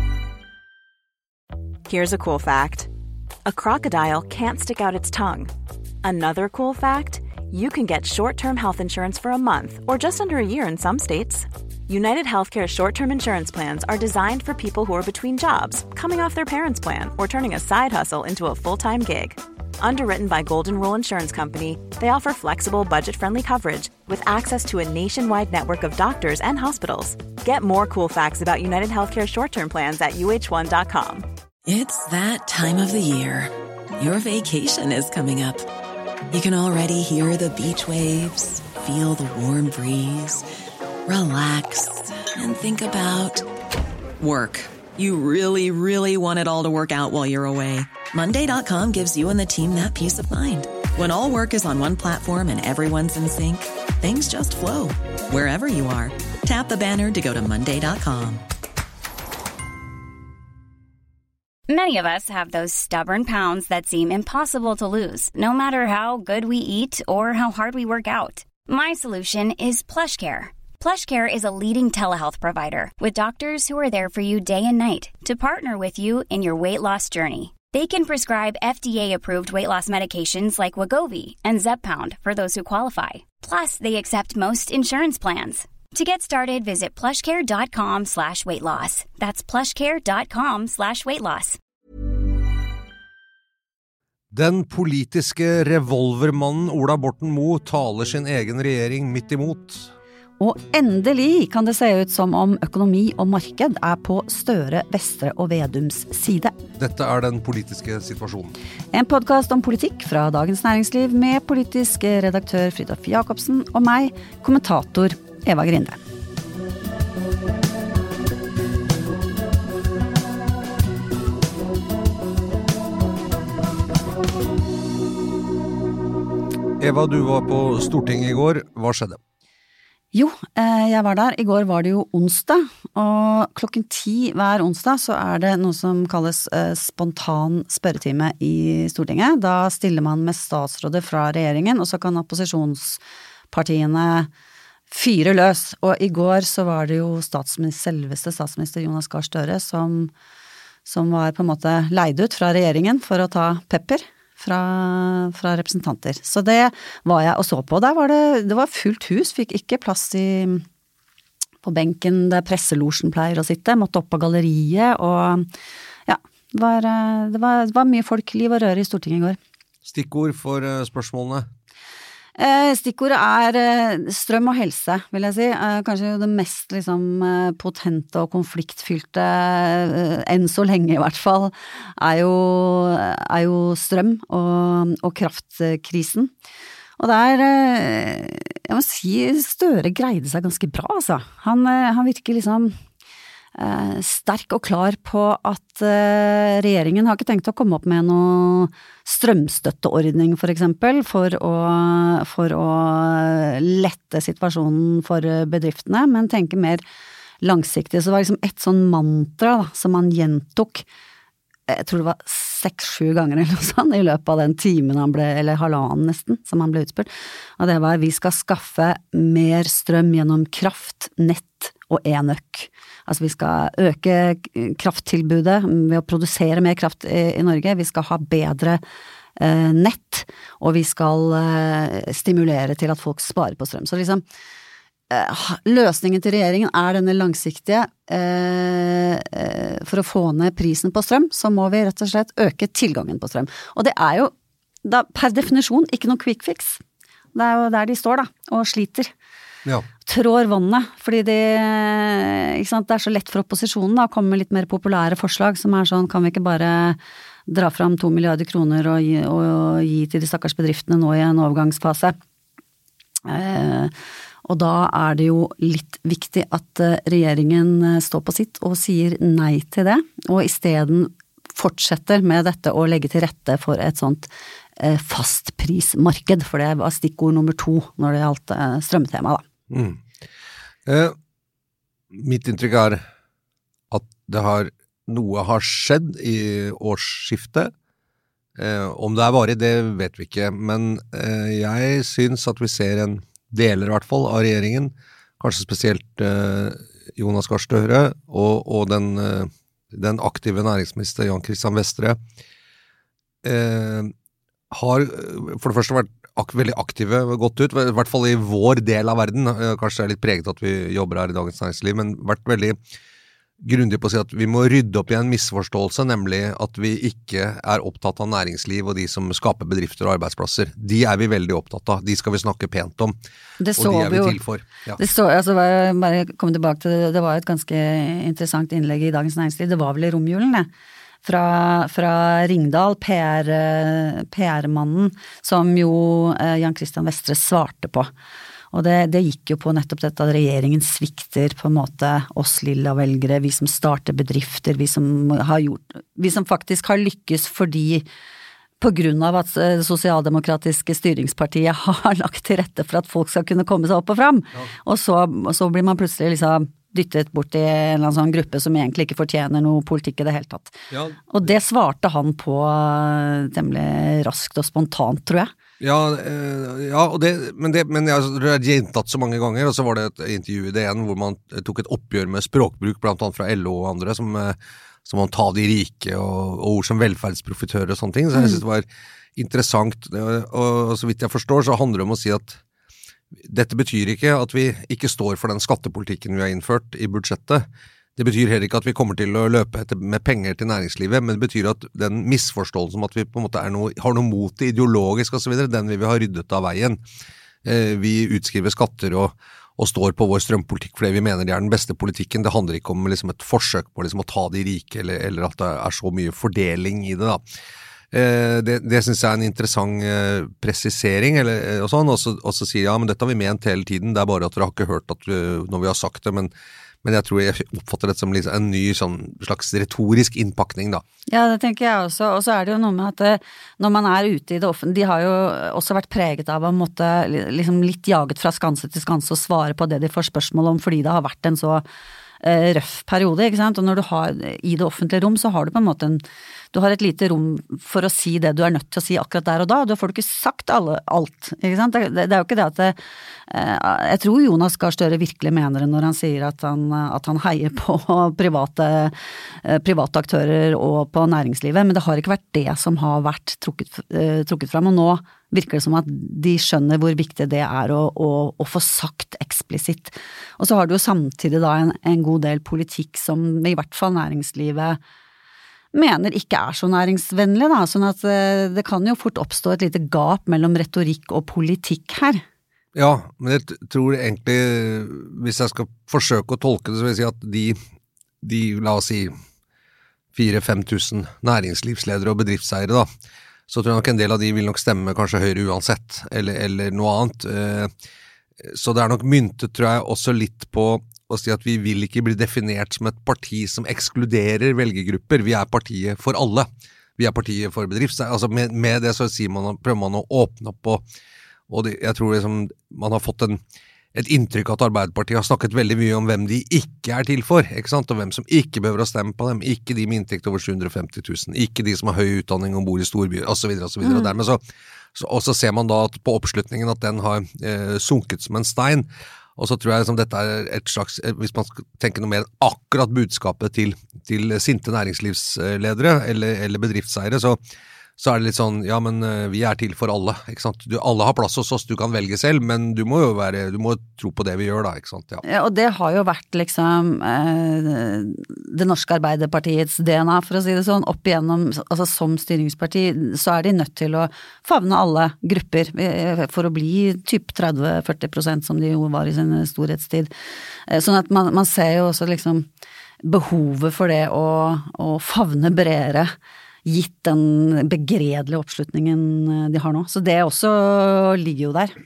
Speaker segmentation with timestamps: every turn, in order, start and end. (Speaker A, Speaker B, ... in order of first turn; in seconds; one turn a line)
Speaker A: 1.9-2.9
Speaker A: 3.5-5.5
Speaker A: 6.0-31.2
Speaker B: 31.6-35.6
Speaker B: 36.3-40.4
Speaker B: 41.0-43.5
Speaker B: 44.2-58.4
Speaker C: 61.7-91.6
Speaker D: 94.3-99.9
Speaker E: 100.4-106.5
Speaker D: 106.8-108.5
Speaker E: 108.9-116.0
Speaker D: 126.8-129.2
Speaker E: 130.1-143.0
Speaker E: 143.5-144.3
Speaker E: 144.9-150.1
Speaker E: 150.8-160.6
Speaker E: 161.6-165.5
Speaker E: 166.1-169.4
Speaker D: 169.8-171.5
Speaker E: 172.4-186.3
Speaker E: 187.0-192.8
Speaker E: 193.6-206.8
Speaker E: 207.4-210.8
Speaker E: 211.7-228.8
Speaker E: 229.4-234.2
Speaker E: 235.1-244.3
Speaker E: 244.8-246.8
Speaker E: 247.3-249.1
Speaker E: 250.0-262.1
Speaker E: 263.2-263.9
Speaker E: 264.4-279.4
Speaker D: 279.7-280.0
Speaker D: 280.9-281.1
Speaker D: 282.1-283.0
Speaker D: 283.9-287.7
Speaker D: 288.6-302.2
Speaker D: 303.4-304.1
Speaker D: 304.7-312.8
Speaker D: 313.6-323.1
Speaker E: 323.6-324.4
Speaker D: 323.7-325.0
Speaker E: 325.0-330.7
Speaker E: 331.2-338.1
Speaker E: 338.7-348.1
Speaker E: 348.8-365.5
Speaker D: 360.9-361.3
Speaker D: 365.8-382.6
Speaker E: 378.3-378.6
Speaker D: 383.4-397.0
Speaker D: 397.6-407.4
Speaker D: 408.1-416.5
Speaker D: 417.0-421.0
Speaker E: 421.3-431.8
Speaker E: 432.4-465.0
Speaker E: 465.9-472.4
Speaker D: 472.9-477.8
Speaker D: 478.4-479.4
Speaker D: 480.3-483.1
Speaker D: 483.7-487.9
Speaker D: 488.6-501.0
Speaker D: 501.7-503.6
Speaker D: 504.1-514.6
Speaker E: 514.0-514.3
Speaker D: 515.1-527.6
Speaker D: 528.2-535.4
Speaker E: 535.4-550.3
Speaker E: 550.9-552.7
Speaker E: 553.2-556.3
Speaker E: 556.8-562.0